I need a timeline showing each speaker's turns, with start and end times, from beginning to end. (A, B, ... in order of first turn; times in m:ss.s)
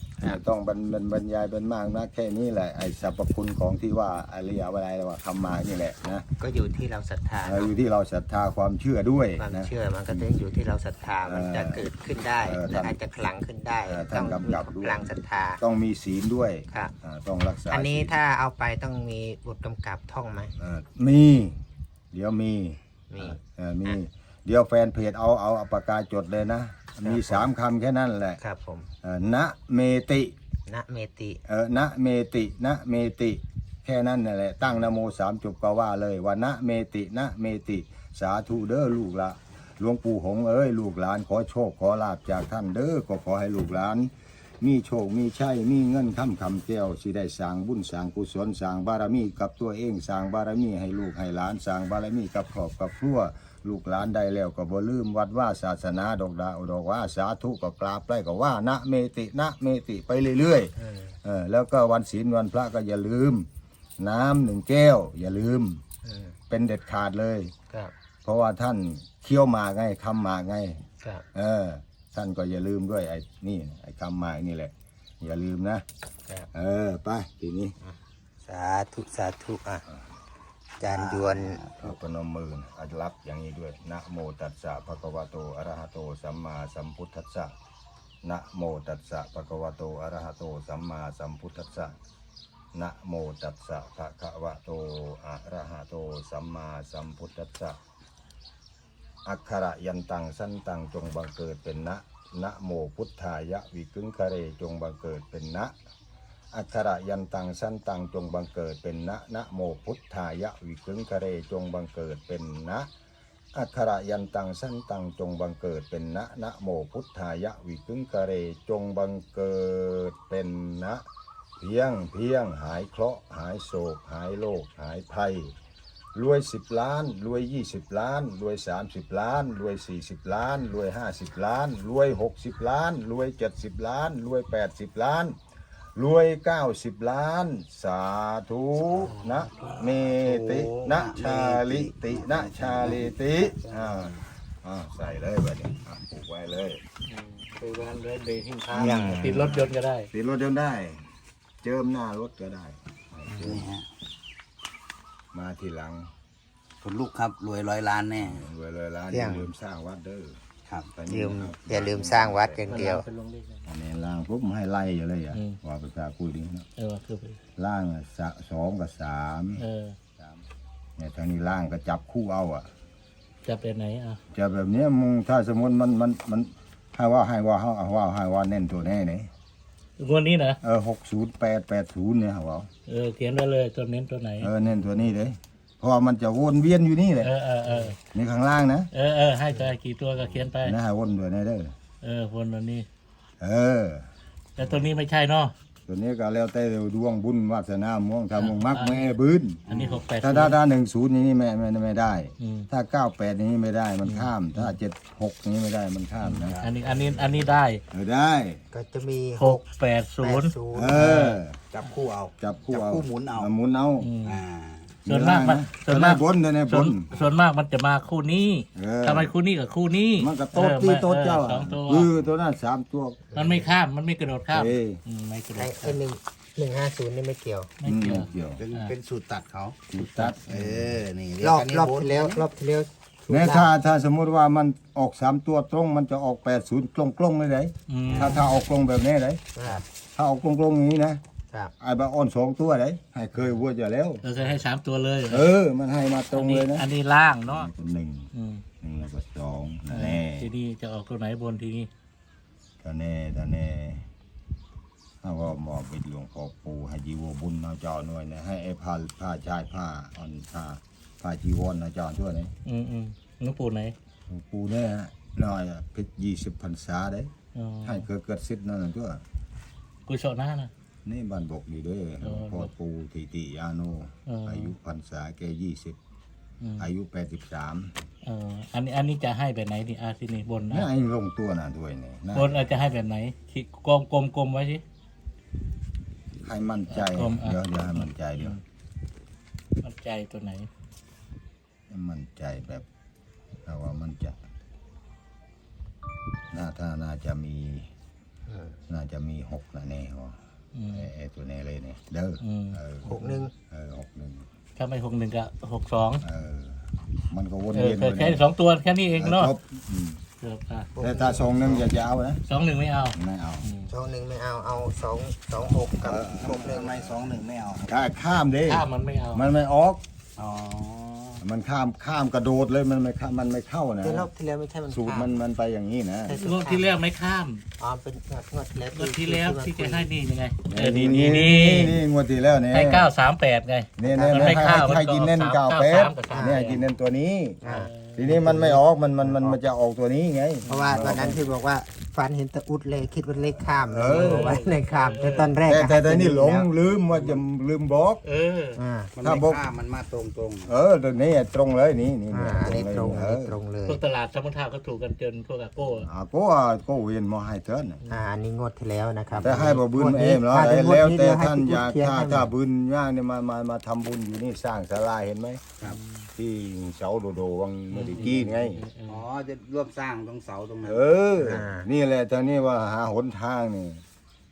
0:00.2-0:06.2 A
0:06.4-0:07.8 B
0:07.4-0:10.2 A
0:09.4-0:15.6 B
0:11.2-0:11.8 A
0:12.4-0:13.0 A
0:13.9-0:15.0 A
0:15.6-0:18.2 A
0:16.7-0:16.9 B
0:17.7-0:20.5 B
0:20.6-0:21.6 A
0:22.1-0:28.4 A
0:23.1-0:24.0 B
0:27.0-0:27.5 B
0:28.4-0:28.9 B
0:29.0-0:30.3 A
0:30.7-0:31.4 B
0:31.4-1:03.5 A
1:00.8-1:01.2 B
1:04.0-1:05.8 A
1:06.0-1:06.4 B
1:06.5-1:07.5 A
1:08.2-1:10.8 A
1:11.0-1:11.2 B
1:11.3-1:15.8 A
1:16.5-1:17.8 A
1:17.8-1:19.8 B
1:20.8-1:21.7 B
1:21.0-1:27.5 A
1:28.2-1:31.9 A
1:32.7-1:37.8 A
1:39.2-1:45.7 A
1:46.5-1:52.9 A
1:53.5-2:01.0 A
2:01.6-2:05.5 A
2:06.1-2:15.4 A
2:16.0-2:26.8 A
2:19.0-2:24.2 C
2:27.1-2:30.1 D
2:28.7-2:29.3 B
2:28.8-2:31.0 A
2:31.6-2:33.7 A
2:33.4-2:33.8 C
2:35.3-2:36.1 A
2:36.8-2:38.5 C
2:38.2-2:40.4 A
2:39.1-2:39.5 B
2:40.6-2:40.9 C
2:40.9-2:42.9 A
2:41.1-2:43.0 B
2:42.7-2:43.6 D
2:43.6-2:46.6 A
2:45.3-2:45.6 D
2:46.8-2:47.4 D
2:47.6-2:49.6 A
2:49.6-2:50.0 D
2:51.0-2:52.7 A
2:53.4-2:54.2 D
2:54.3-2:59.3 A
3:00.0-3:00.6 D
3:00.6-3:02.7 A
3:02.9-3:04.5 D
3:04.4-3:07.3 A
3:07.2-3:08.0 D
3:08.0-3:08.9 A
3:08.9-3:10.8 D
3:10.6-3:11.7 A
3:12.0-3:12.9 D
3:13.4-3:14.1 A
3:14.6-3:15.5 D
3:15.8-3:19.6 A
3:18.3-3:19.0 D
3:19.7-3:20.0 C
3:19.7-3:20.6 D
3:20.2-3:26.6 A
3:22.4-3:22.7 D
3:24.0-3:24.7 D
3:26.2-3:27.8 D
3:26.4-3:27.4 C
3:27.9-3:28.6 A
3:28.7-3:29.6 B
3:29.4-3:31.2 D
3:30.2-3:31.3 B
3:30.7-3:31.6 A
3:31.1-3:33.5 C
3:32.4-3:34.1 A
3:34.0-3:34.4 D
3:34.2-3:35.0 C
3:35.0-3:37.2 A
3:35.0-3:42.1 D
3:38.7-3:39.3 A
3:40.2-3:43.2 A
3:43.3-3:43.7 B
3:43.3-3:46.0 D
3:44.5-3:45.0 A
3:45.5-3:47.7 B
3:47.8-3:48.9 D
3:47.8-3:48.6 A
3:48.6-3:52.5 C
3:49.9-3:51.0 A
3:50.0-3:50.3 D
3:51.4-3:53.7 B
3:53.3-4:01.2 A
3:57.9-3:58.4 D
3:58.1-3:58.4 C
3:59.5-3:59.8 B
4:01.8-4:04.2 A
4:04.2-4:05.5 D
4:05.2-4:06.9 A
4:06.3-4:07.7 D
4:07.4-4:08.3 A
4:08.3-4:08.6 D
4:08.8-4:10.5 A
4:09.9-4:11.9 D
4:12.8-4:14.1 A
4:15.2-4:22.5 A
4:22.6-4:23.9 D
4:24.3-4:27.3 A
4:27.5-4:28.0 D
4:27.8-4:29.2 A
4:30.0-4:30.7 D
4:31.0-4:36.0 A
4:32.2-4:32.7 D
4:34.2-4:34.7 D
4:36.6-4:36.9 D
4:36.8-4:37.9 A
4:38.2-4:40.9 D
4:40.7-4:42.5 A
4:42.3-4:44.8 D
4:46.4-4:48.6 A
4:46.9-4:48.6 D
4:49.8-4:50.7 D
4:51.9-4:52.8 A
4:53.6-4:54.4 A
4:56.5-4:57.9 A
4:58.5-4:58.8 B
4:58.9-5:00.4 A
5:00.7-5:01.1 D
5:00.9-5:04.4 A
5:02.4-5:03.2 D
5:03.0-5:03.5 B
5:04.8-5:06.2 D
5:06.2-5:08.5 A
5:07.7-5:09.5 D
5:09.1-5:10.2 A
5:10.4-5:10.9 D
5:10.9-5:11.9 B
5:11.0-5:12.4 A
5:12.4-5:13.9 D
5:13.1-5:13.7 A
5:13.9-5:17.0 B
5:15.6-5:20.0 A
5:16.4-5:18.0 C
5:18.6-5:19.4 D
5:20.4-5:21.4 C
5:21.4-5:24.3 A
5:24.0-5:25.4 B
5:24.9-5:26.4 A
5:26.2-5:27.0 B
5:26.3-5:27.6 D
5:27.8-5:30.1 B
5:28.9-5:32.0 D
5:30.6-5:33.1 A
5:32.7-5:36.9 D
5:34.0-5:37.6 A
5:34.0-5:35.0 B
5:36.3-5:36.8 B
5:37.6-5:39.6 B
5:37.6-5:38.6 D
5:38.1-5:41.5 A
5:40.7-5:40.9 D
5:40.7-5:46.7 B
5:43.8-5:44.6 A
5:44.1-5:45.6 D
5:45.6-5:48.2 A
5:48.2-5:48.8 D
5:48.7-5:49.1 B
5:49.1-5:50.7 C
5:49.2-5:49.6 A
5:50.6-5:53.5 A
5:52.3-5:54.0 B
5:53.8-5:56.1 D
5:56.0-5:58.0 A
5:58.1-6:02.5 B
5:59.3-5:59.6 C
5:59.4-6:05.6 A
6:05.9-6:06.2 D
6:06.3-6:08.8 A
6:07.9-6:09.2 D
6:09.1-6:11.1 C
6:10.8-6:14.0 A
6:11.4-6:11.9 B